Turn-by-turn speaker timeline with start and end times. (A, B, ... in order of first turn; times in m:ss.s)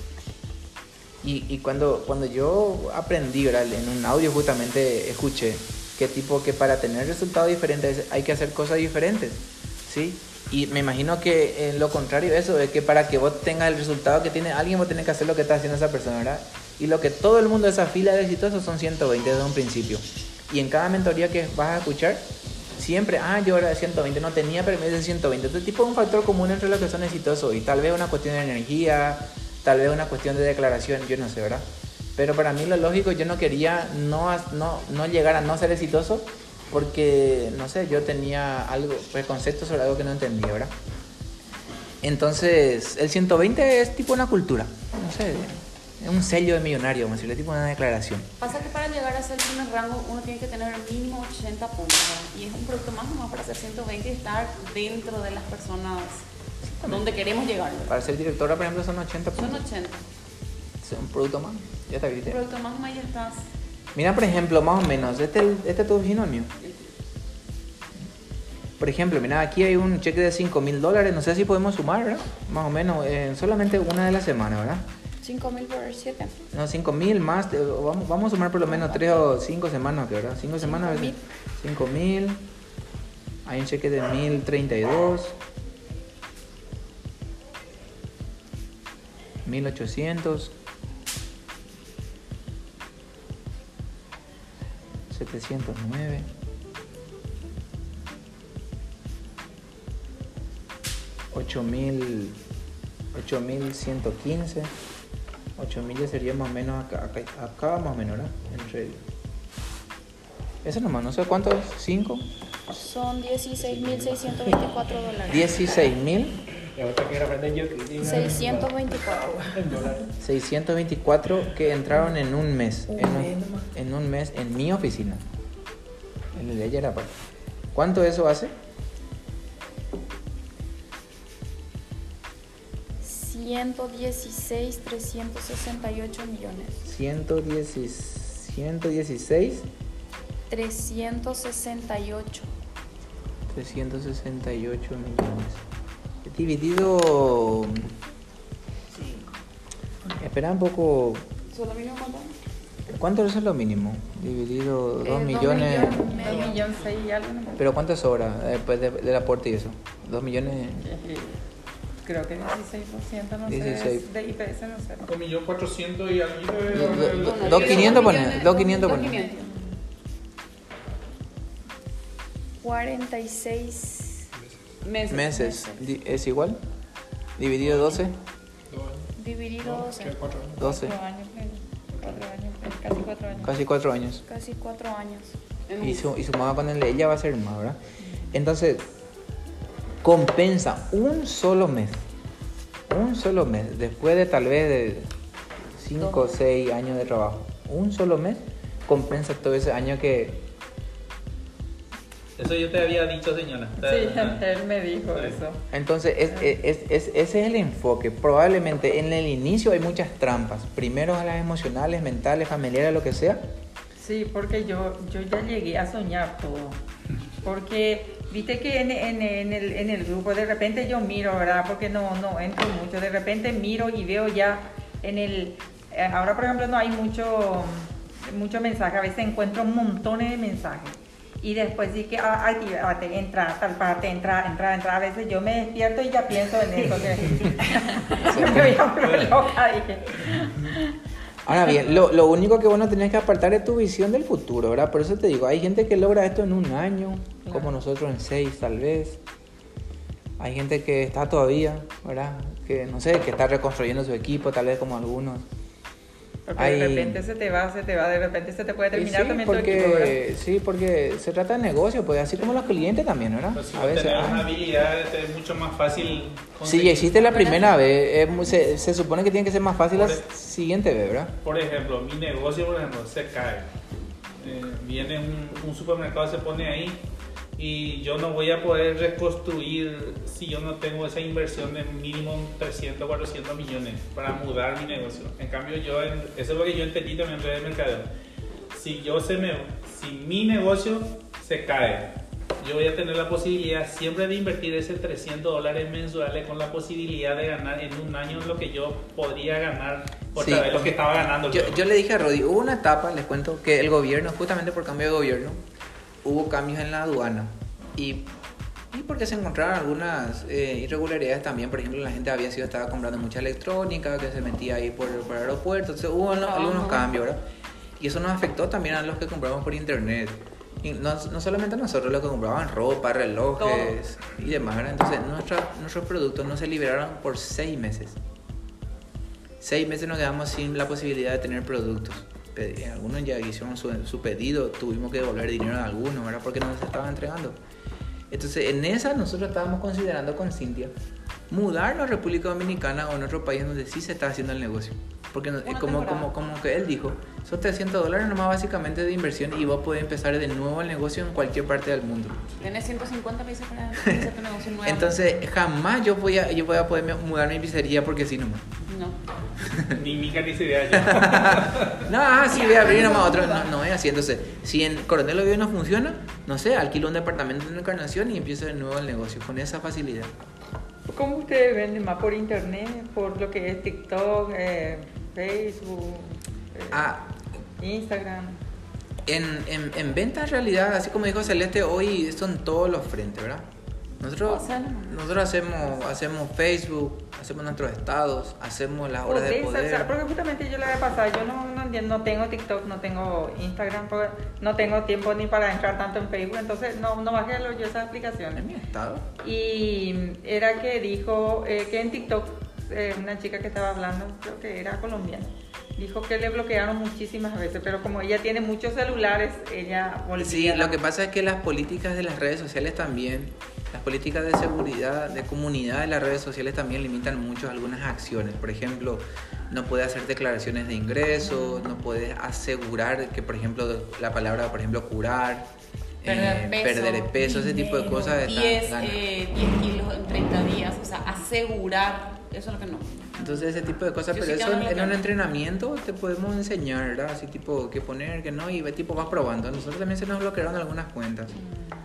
0:01.2-0:40.7 A
0:42.0-0:48.3 A
0:48.4-0:56.2 B
0:56.6-0:57.2 A
0:56.8-0:58.0 B
0:57.9-0:59.6 A
0:59.3-1:00.0 B
1:00.8-1:02.4 A
1:02.3-1:03.5 B
1:03.9-1:06.5 A
1:06.6-1:06.9 B
1:08.8-1:14.9 A
1:15.2-1:16.4 C
1:16.5-1:22.4 A
1:18.7-1:19.3 C
1:20.6-1:21.2 C
1:23.4-1:25.4 A
1:29.4-1:30.5 A
1:35.1-1:36.3 A
1:41.3-1:42.4 A
1:43.1-1:44.7 A
1:45.6-1:49.0 A
1:50.6-1:52.2 A
1:52.7-1:55.5 C
1:53.6-1:54.6 D
1:55.3-1:56.4 A
1:56.6-2:00.1 D
1:58.0-1:59.4 C
2:00.2-2:05.2 A
2:03.2-2:03.6 D
2:06.3-2:07.1 A
2:07.7-2:08.5 A
2:13.0-2:16.9 C
2:16.8-2:19.7 A
2:20.5-2:22.5 C
2:23.5-2:25.6 A
2:26.2-2:27.9 A
2:30.2-2:31.3 A
2:31.5-2:32.3 B
2:32.9-2:36.2 A
2:35.1-2:36.7 C
2:35.1-2:37.6 E
2:37.6-2:40.8 A
2:40.8-2:41.4 E
2:42.0-2:45.1 E
2:43.4-2:44.0 A
2:45.0-2:48.2 F
2:46.7-2:49.2 A
2:47.0-2:49.4 B
2:49.1-2:49.7 E
2:52.6-2:54.3 C
2:54.3-2:54.6 D
2:54.8-2:55.3 B
2:55.1-2:56.6 A
2:55.2-2:55.9 C
2:57.4-2:58.2 A
2:57.6-2:58.0 D
2:58.7-3:00.8 D
2:59.2-3:00.2 C
3:00.6-3:01.0 A
3:00.8-3:01.5 E
3:01.9-3:02.2 D
3:02.0-3:03.4 C
3:02.6-3:03.3 E
3:03.3-3:04.2 A
3:04.2-3:05.3 C
3:05.7-3:06.1 B
3:05.8-3:07.8 A
3:08.0-3:08.3 E
3:08.3-3:08.9 A
3:10.0-3:12.0 A
3:12.9-3:15.1 A
3:15.7-3:20.4 A
3:22.4-3:24.4 F
3:23.8-3:25.6 E
3:25.7-3:33.5 A
3:34.0-3:36.8 E
3:37.4-4:00.9 E
3:58.1-3:58.9 A
3:58.9-3:59.4 F
4:01.4-4:09.2 A
4:07.4-4:07.7 E
4:10.4-4:15.4 A
4:16.5-4:20.2 E
4:16.6-4:17.2 A
4:18.9-4:24.5 A
4:23.5-4:27.7 F
4:26.6-4:31.3 A
4:29.9-4:30.2 F
4:31.4-4:33.7 F
4:34.4-4:37.0 F
4:37.6-4:48.1 F
4:48.7-5:01.8 F
5:00.3-5:05.6 A
5:06.2-5:08.3 A
5:08.9-5:17.4 A
5:16.4-5:17.1 B
5:18.0-5:28.2 A
5:23.6-5:24.0 B
5:29.6-5:37.6 A
5:38.3-5:40.9 A
5:41.5-5:52.6 A
5:45.6-5:46.3 B
5:52.6-5:55.2 B
5:54.0-5:58.7 A
5:58.9-5:59.2 B
5:59.6-6:00.0 A
5:59.9-6:02.1 F
6:00.9-6:10.3 A
6:02.7-6:03.4 B
6:11.1-6:17.1 E
6:16.9-6:17.4 A
6:17.8-6:18.6 E
6:19.2-6:23.7 A
6:24.2-6:30.1 A
6:24.4-6:25.2 B
6:29.3-6:38.6 E
6:38.5-6:39.2 A
6:39.4-6:51.0 E
6:50.4-7:05.7 A
7:06.2-7:09.2 A
7:06.2-7:13.6 B
7:13.4-7:21.6 A
7:14.3-7:15.2 B